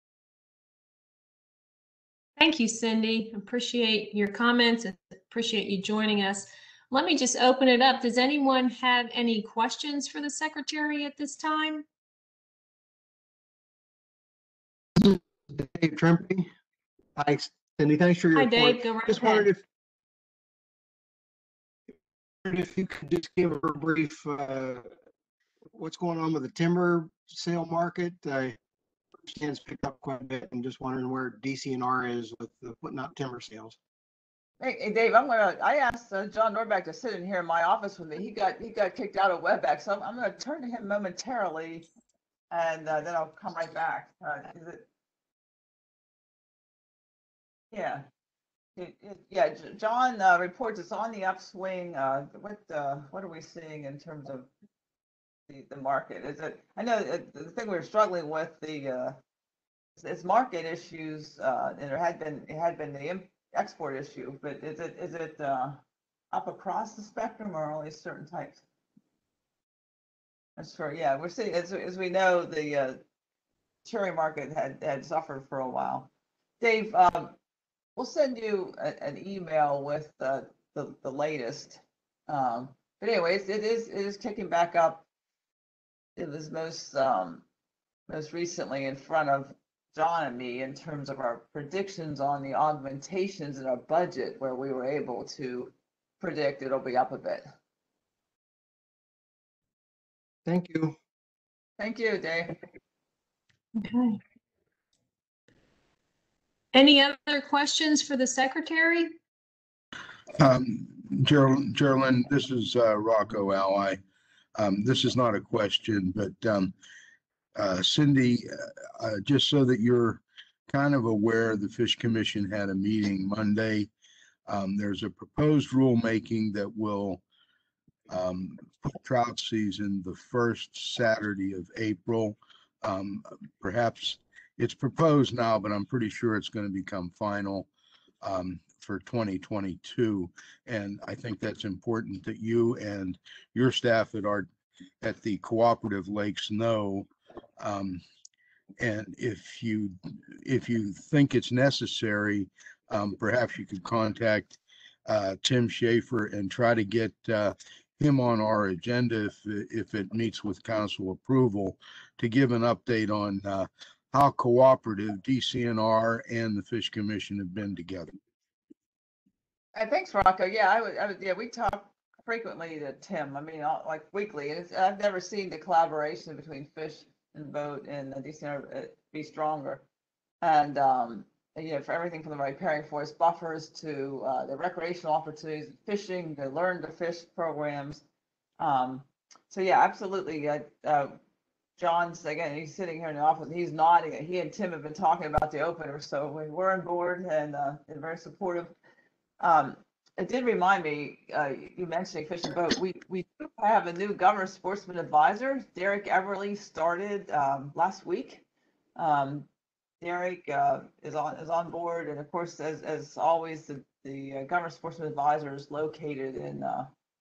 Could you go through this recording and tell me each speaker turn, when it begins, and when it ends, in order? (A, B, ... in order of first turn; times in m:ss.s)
0:02.4-0:11.8 A
0:15.0-0:16.5 B
0:17.2-0:19.6 B
0:18.3-0:19.5 A
0:22.4-0:24.9 B
0:25.7-0:28.6 B
0:29.3-0:33.8 B
0:34.6-0:41.9 C
0:42.5-0:44.9 C
0:47.7-0:48.0 C
0:48.8-0:54.5 C
0:55.5-0:59.2 C
1:00.0-1:05.8 C
1:06.3-1:08.6 C
1:10.6-1:13.0 C
1:13.8-1:16.1 C
1:16.6-1:17.4 C
1:18.0-1:25.0 C
1:26.2-1:27.4 C
1:28.1-1:37.5 C
1:40.5-1:41.0 B
1:41.8-1:42.6 C
1:43.8-1:44.2 A
1:46.7-1:49.2 A
1:50.4-1:54.0 D
1:54.6-1:56.7 D
1:57.6-2:03.9 D
2:04.5-2:07.2 D
2:08.1-2:17.7 D
2:18.2-2:24.5 D
2:25.0-2:27.1 D
2:27.6-2:28.0 D
2:28.8-2:48.1 D
2:49.7-2:59.8 C
3:00.4-3:08.0 C
3:08.6-3:11.2 C
3:11.8-3:18.7 C
3:19.4-3:28.4 C
3:29.0-3:29.5 C
3:30.0-3:36.9 C